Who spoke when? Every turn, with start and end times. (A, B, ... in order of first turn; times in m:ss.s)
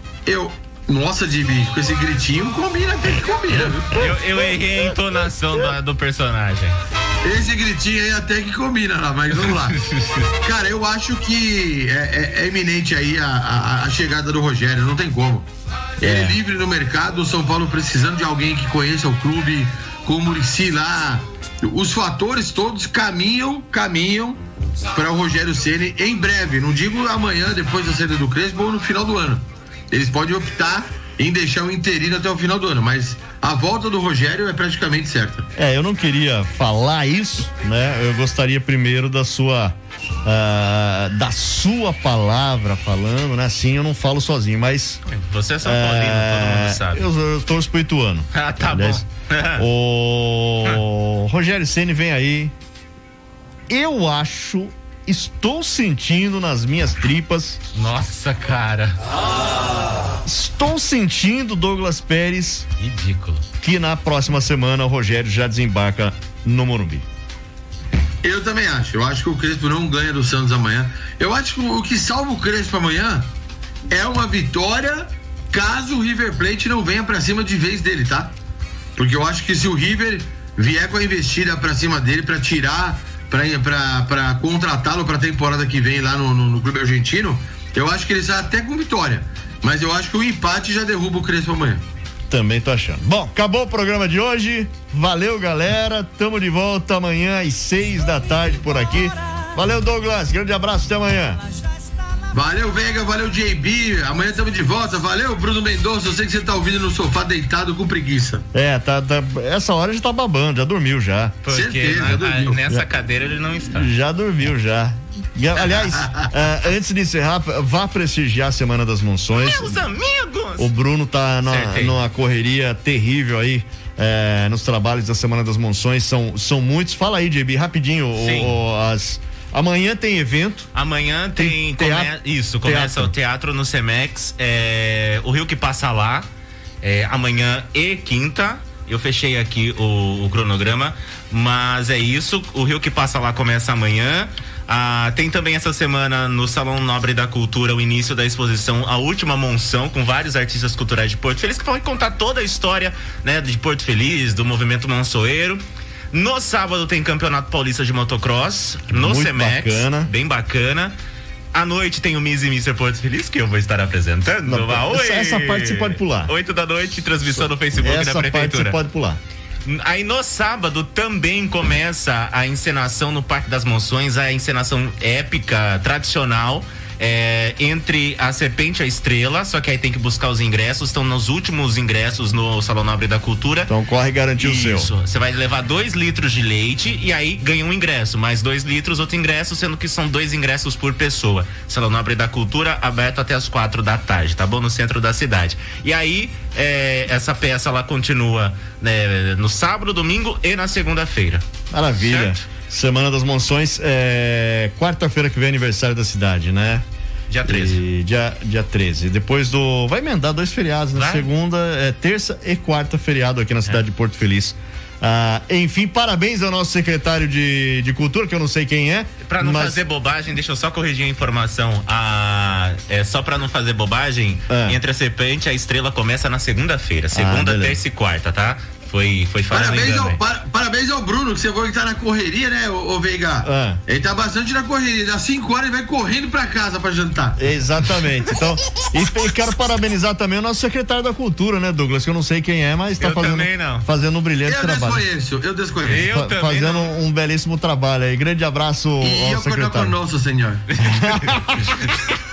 0:00.2-0:03.8 A
0:03.5-0:06.8 B
0:07.2-0:09.8 A
0:09.4-0:10.3 B
0:10.4-0:15.5 A
0:16.0-0:24.4 A
0:16.0-0:16.4 C
0:24.9-0:35.5 A
0:35.6-0:45.0 C
0:45.0-0:47.1 B
0:45.6-0:52.5 C
0:48.3-0:49.6 B
0:53.7-0:57.6 C
0:57.7-0:59.0 B
1:00.2-1:02.7 C
1:02.8-1:03.4 B
1:03.6-1:07.0 C
1:08.2-1:13.3 A
1:13.9-1:18.3 A
1:19.0-1:31.8 A
1:32.3-1:41.4 C
1:42.3-1:48.4 A
1:48.5-1:51.4 C
1:51.4-1:53.9 B
1:51.5-1:52.6 A
1:53.7-1:59.8 C
1:59.3-2:00.7 B
2:00.6-2:10.7 C
2:01.4-2:02.0 B
2:08.2-2:08.5 B
2:10.7-2:16.3 B
2:11.4-2:13.1 C
2:16.8-2:40.9 B
2:38.9-2:40.1 C
2:41.5-2:48.8 B
2:44.4-2:46.3 C
2:47.3-2:49.2 C
2:49.6-3:03.7 B
3:03.7-3:04.9 C
3:04.4-3:22.4 B
3:21.7-3:26.8 C
3:27.3-3:27.8 B
3:27.4-3:39.8 C
3:30.9-3:31.3 B
3:39.2-3:50.2 B
3:44.5-3:44.8 C
3:47.1-3:47.8 C
3:49.5-3:57.4 A
3:53.4-3:53.8 C
3:57.4-4:05.0 C
4:03.0-4:03.8 B
4:04.4-4:06.0 A
4:05.8-4:06.9 B
4:05.9-4:10.0 C
4:09.0-4:10.6 A
4:10.7-4:11.9 B
4:10.8-4:11.6 C